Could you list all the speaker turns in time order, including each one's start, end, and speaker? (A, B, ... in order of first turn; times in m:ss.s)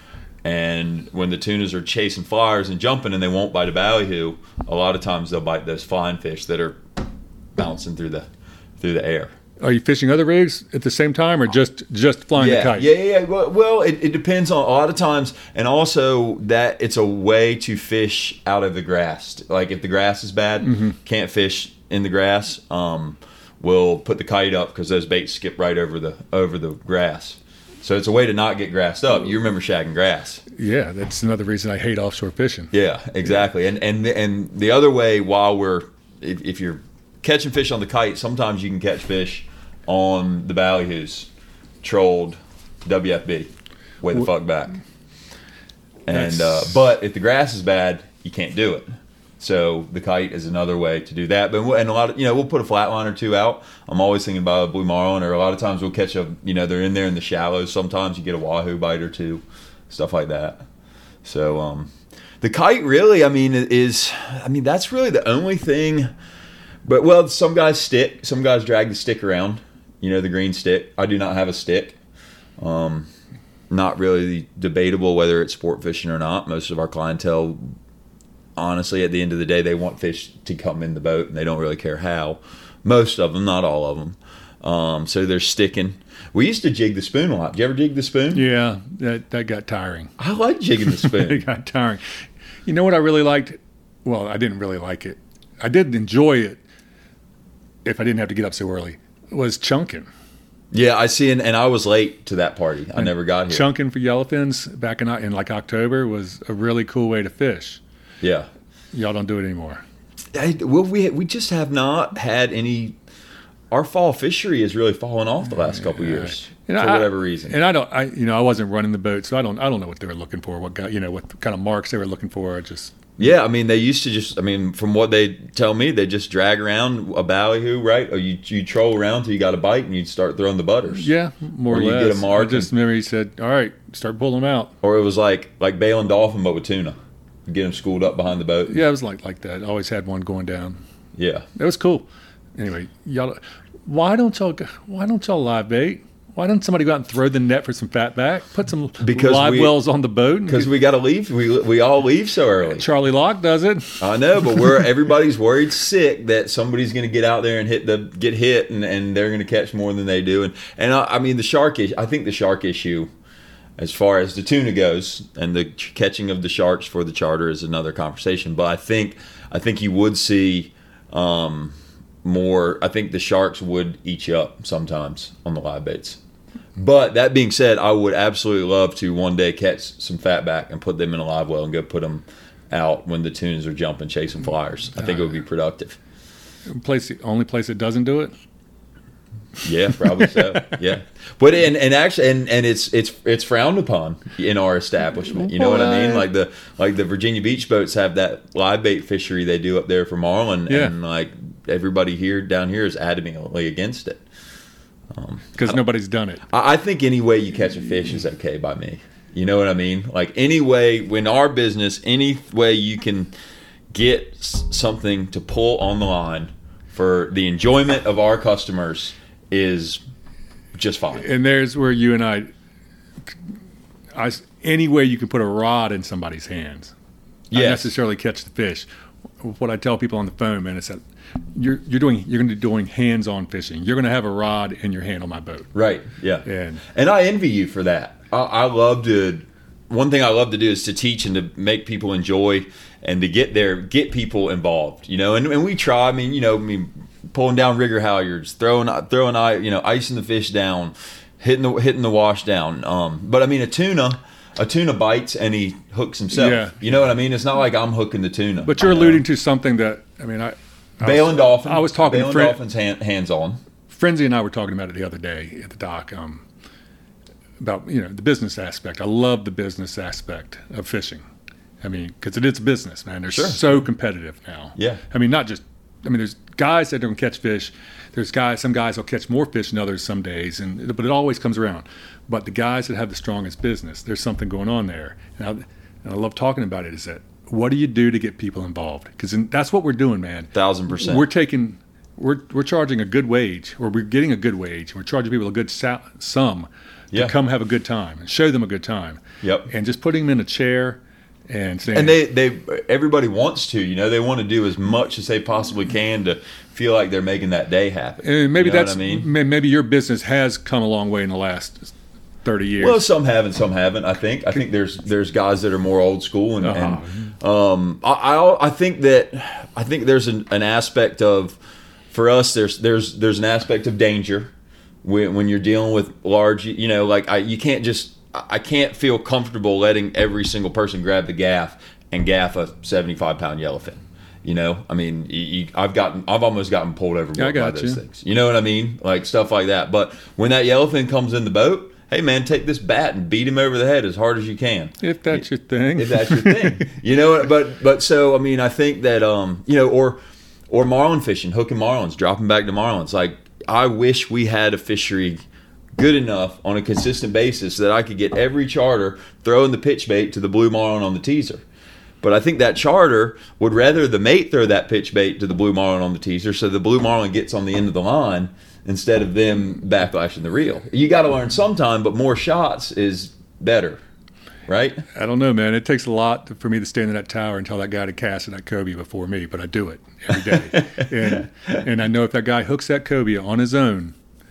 0:00.4-0:06.8 A
0:07.6-0:08.2 A
0:08.8-0:09.3 A
0:09.6-0:12.9 B
0:12.4-0:30.4 A
0:20.6-0:20.9 B
0:30.5-0:32.7 B
0:32.7-0:41.3 A
0:41.8-0:43.5 A
0:44.0-0:44.8 A
0:46.0-0:48.9 A
0:46.1-0:46.7 B
0:49.4-1:00.6 A
1:01.2-1:01.9 A
1:02.4-1:06.1 A
1:06.8-1:12.0 A
1:12.6-1:13.1 A
1:13.7-1:17.6 A
1:18.6-1:28.4 A
1:28.3-1:30.1 B
1:30.2-1:31.4 A
1:30.8-1:32.0 B
1:32.6-1:36.6 B
1:37.8-1:40.1 B
1:40.7-1:43.7 A
1:43.0-1:47.8 B
1:48.2-1:48.5 A
1:48.9-1:49.8 B
1:50.3-1:53.0 A
1:53.7-1:57.6 A
1:56.1-2:03.0 B
2:03.2-2:11.1 A
2:10.9-2:14.7 B
2:11.7-2:12.7 A
2:14.8-2:17.0 A
2:17.5-2:18.8 A
2:18.7-2:20.8 B
2:21.2-2:21.5 A
2:21.6-2:30.7 B
2:29.0-2:29.8 A
2:30.5-2:32.8 A
2:32.7-2:34.6 B
2:34.0-2:43.1 A
2:43.8-2:56.2 A
2:56.8-3:06.0 A
3:06.7-3:08.3 B
3:09.6-3:24.2 A
3:10.0-3:10.7 B
3:15.3-3:16.3 B
3:20.7-3:20.9 B
3:25.1-3:25.8 A
3:25.6-3:26.4 B
3:26.5-3:33.3 A
3:33.9-3:40.0 A
3:40.7-3:41.3 A
3:41.1-3:42.5 B
3:44.1-3:46.9 B
3:47.5-3:47.9 A
3:47.5-3:48.8 B
3:49.4-3:51.0 B
3:51.6-3:55.7 B
3:55.7-4:19.2 A
3:56.4-3:56.8 B
4:16.3-4:16.7 B
4:18.6-4:22.6 B
4:21.0-4:23.6 A
4:23.9-4:26.4 B
4:27.6-4:31.2 B
4:31.8-5:02.2 B
4:33.3-4:33.7 A
4:34.8-4:35.0 A
4:50.5-4:51.3 A
4:59.4-4:59.7 A
5:01.9-5:09.3 A
5:08.2-5:11.9 B
5:12.4-5:13.0 B
5:12.8-5:21.6 A
5:16.6-5:17.3 B
5:22.1-5:24.5 A
5:25.0-5:45.4 A
5:37.4-5:38.0 B
5:45.0-5:46.9 B
5:46.0-5:50.2 A
5:50.7-5:55.4 A
5:56.0-6:01.6 A
6:02.2-6:14.0 A
6:14.7-6:15.0 A
6:15.1-6:24.1 B
6:20.5-6:21.0 A